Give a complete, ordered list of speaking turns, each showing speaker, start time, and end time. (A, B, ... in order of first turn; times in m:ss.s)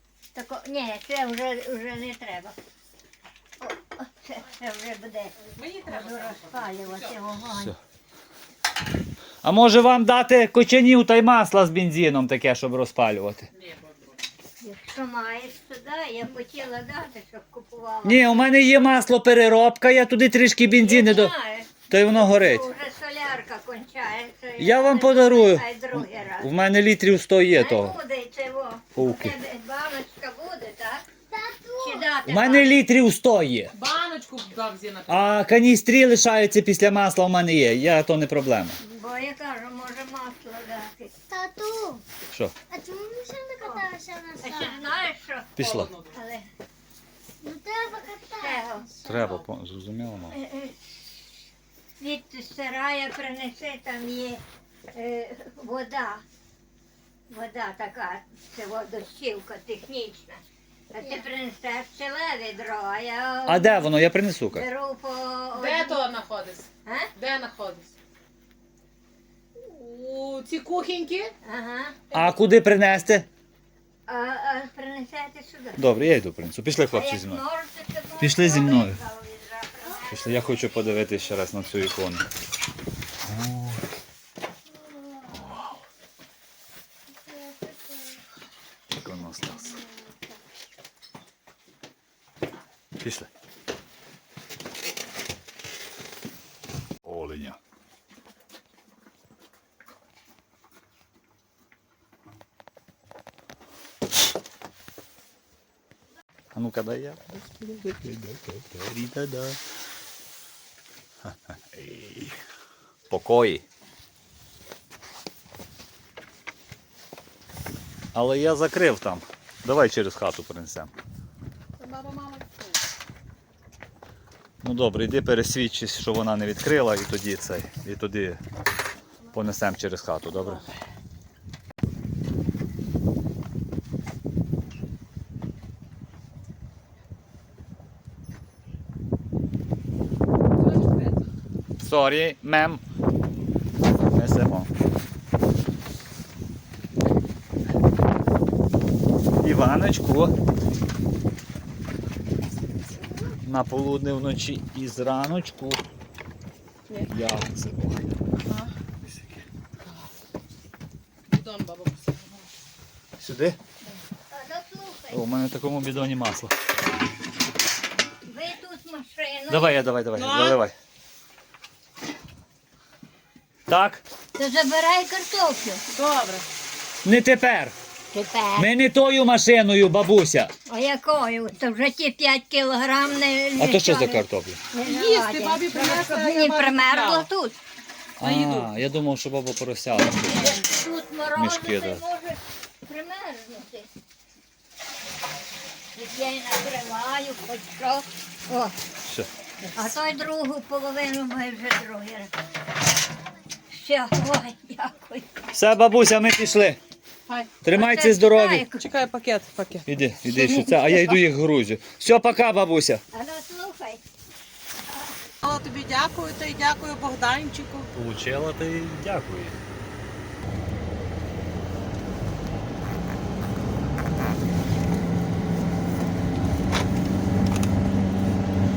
0:00.3-0:02.6 A
0:03.6-0:07.7 A
0:05.5-0:07.2 B
0:09.4-0:13.5 C
0:13.6-0:14.1 B
0:14.6-0:18.4 A
0:18.0-0:21.3 C
0:20.6-0:26.5 A
0:21.9-0:22.7 C
0:24.6-0:28.0 C
0:27.5-0:31.0 A
0:28.9-0:29.4 C
0:31.3-0:32.1 D
0:31.8-0:32.7 A
0:32.2-0:33.7 C
0:33.7-0:35.4 B
0:35.1-0:38.8 C
0:38.8-0:41.2 A
0:41.3-0:42.0 D
0:42.7-0:44.8 D
0:44.4-0:45.6 A
0:45.6-0:45.9 C
0:45.6-0:46.2 B
0:46.1-0:46.5 A
0:47.4-0:48.9 D
0:48.0-0:48.9 A
0:49.0-0:50.4 C
0:49.0-0:49.4 B
0:50.3-0:51.4 A
0:52.0-0:56.2 A
0:57.3-1:06.0 A
1:03.4-1:04.6 C
1:05.5-1:07.9 B
1:06.8-1:07.1 A
1:09.6-1:11.3 B
1:11.4-1:12.0 A
1:12.1-1:13.3 C
1:14.1-1:15.8 A
1:15.8-1:17.4 C
1:16.9-1:20.4 A
1:18.2-1:19.0 C
1:20.1-1:22.2 C
1:23.2-1:23.8 C
1:25.3-1:25.7 C
1:28.9-1:29.8 C
1:33.0-1:33.3 C
1:37.0-1:37.6 C
1:46.5-1:49.6 C
1:51.7-1:52.3 C
1:53.1-1:53.6 C
1:58.1-2:00.9 C
2:01.8-2:02.8 B
2:04.6-2:08.4 C
2:09.3-2:10.7 C
2:10.4-2:10.7 B
2:20.6-2:21.1 B
2:21.8-2:22.8 C
2:24.1-2:24.7 C
2:29.4-2:30.3 C
2:33.4-2:35.8 C
2:37.1-2:38.0 C
2:38.4-2:38.7 B
2:39.0-2:39.4 C
2:41.3-2:42.5 B
2:43.2-2:43.6 C
2:44.2-2:45.2 A
2:45.1-2:46.5 C
2:48.2-2:49.8 A
2:49.5-2:50.7 C
2:50.1-2:50.6 B
2:53.7-2:54.0 C
2:54.3-2:55.8 A
2:55.9-2:56.4 B
2:57.0-2:57.7 C
2:58.1-2:58.7 A
2:58.6-3:00.5 C
3:00.7-3:07.6 A
3:03.6-3:04.6 C
3:04.8-3:07.3 B
3:08.2-3:10.6 C
3:08.2-3:08.7 B
3:10.3-3:13.9 A
3:11.3-3:12.0 C
3:15.9-3:18.8 A
3:19.7-3:22.3 A
3:23.7-3:25.3 A
3:25.5-3:26.8 C
3:27.3-3:27.6 B
3:27.6-3:28.6 C
3:27.7-3:28.8 A
3:28.8-3:29.8 B
3:29.9-3:33.0 C
3:30.2-3:31.2 A
3:33.1-3:34.0 A
3:35.4-3:37.9 B
3:37.9-3:39.6 C